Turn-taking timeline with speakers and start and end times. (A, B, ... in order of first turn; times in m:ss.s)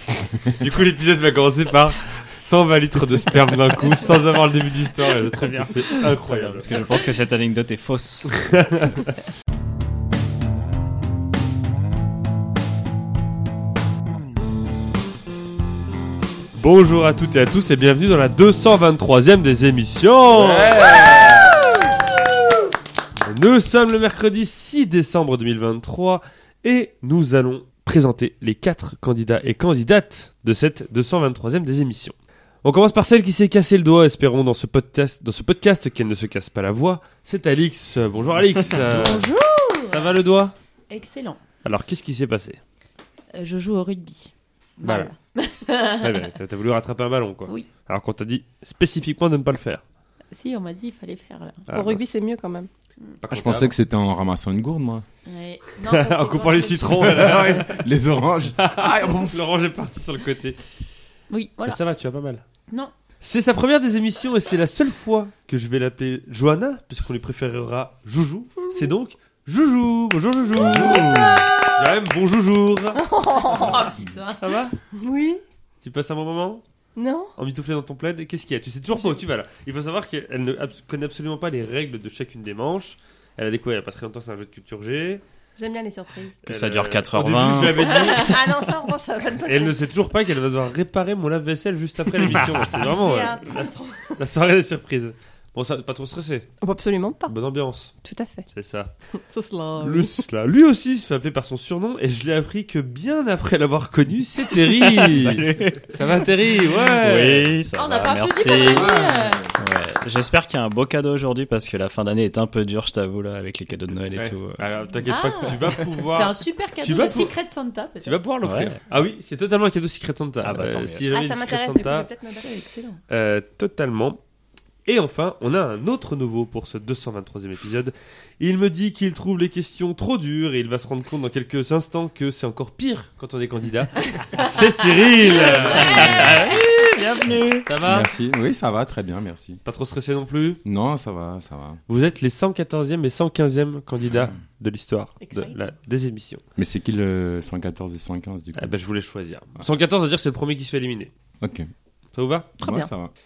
0:00.5-0:07.0 A
0:05.2-0:08.3 B
0:08.3-0:09.1 A
0:16.6-0:21.4 A
0:20.3-0:21.7 C
0:23.2-0:39.3 A
0:38.7-0:40.2 D
0:39.9-0:40.5 A
0:40.9-0:41.4 D
0:41.6-0:42.6 A
0:43.3-0:46.3 D
0:44.8-0:45.1 A
0:46.0-0:49.8 A
0:50.3-0:51.7 D
0:51.7-0:52.0 A
0:51.7-0:52.7 E
0:53.2-0:53.7 A
0:53.3-0:55.1 C
0:55.3-0:57.7 D
0:55.8-0:57.8 A
0:57.0-0:59.4 C
0:58.6-1:00.6 A
1:01.3-1:01.8 D
1:01.7-1:02.4 A
1:03.2-1:13.0 A
1:10.6-1:11.8 E
1:10.7-1:11.2 C
1:13.0-1:14.0 E
1:13.4-1:14.5 D
1:14.4-1:14.8 A
1:14.9-1:15.4 E
1:15.8-1:16.6 A
1:17.0-1:17.3 E
1:17.4-1:25.2 A
1:19.0-1:19.2 E
1:25.6-1:26.4 E
1:26.5-1:28.0 B
1:26.5-1:28.7 A
1:27.8-1:29.8 E
1:29.4-1:36.5 A
1:32.6-1:34.2 E
1:36.6-1:37.3 E
1:37.3-1:38.0 A
1:38.0-1:38.5 E
1:38.5-1:38.9 A
1:39.2-1:40.2 E
1:39.8-1:47.5 A
1:44.4-1:49.0 B
1:47.7-1:49.5 D
1:48.7-1:49.6 C
1:49.6-1:54.7 B
1:54.1-1:57.4 A
1:55.0-1:58.2 D
1:55.4-1:55.8 B
1:58.0-2:02.1 A
1:58.4-1:58.8 B
2:00.4-2:01.1 B
2:01.1-2:03.0 E
2:03.1-2:04.2 A
2:04.9-2:16.4 A
2:14.1-2:14.4 D
2:15.2-2:17.7 B
2:15.5-2:16.2 D
2:17.7-2:18.1 A
2:17.8-2:19.6 C
2:19.7-2:20.6 A
2:20.6-2:21.8 C
2:21.9-2:26.4 A
2:25.2-2:25.6 E
2:26.6-2:28.7 C
2:28.6-2:31.1 A
2:31.4-2:31.7 C
2:32.2-2:32.5 A
2:32.6-2:33.1 C
2:32.6-2:32.9 E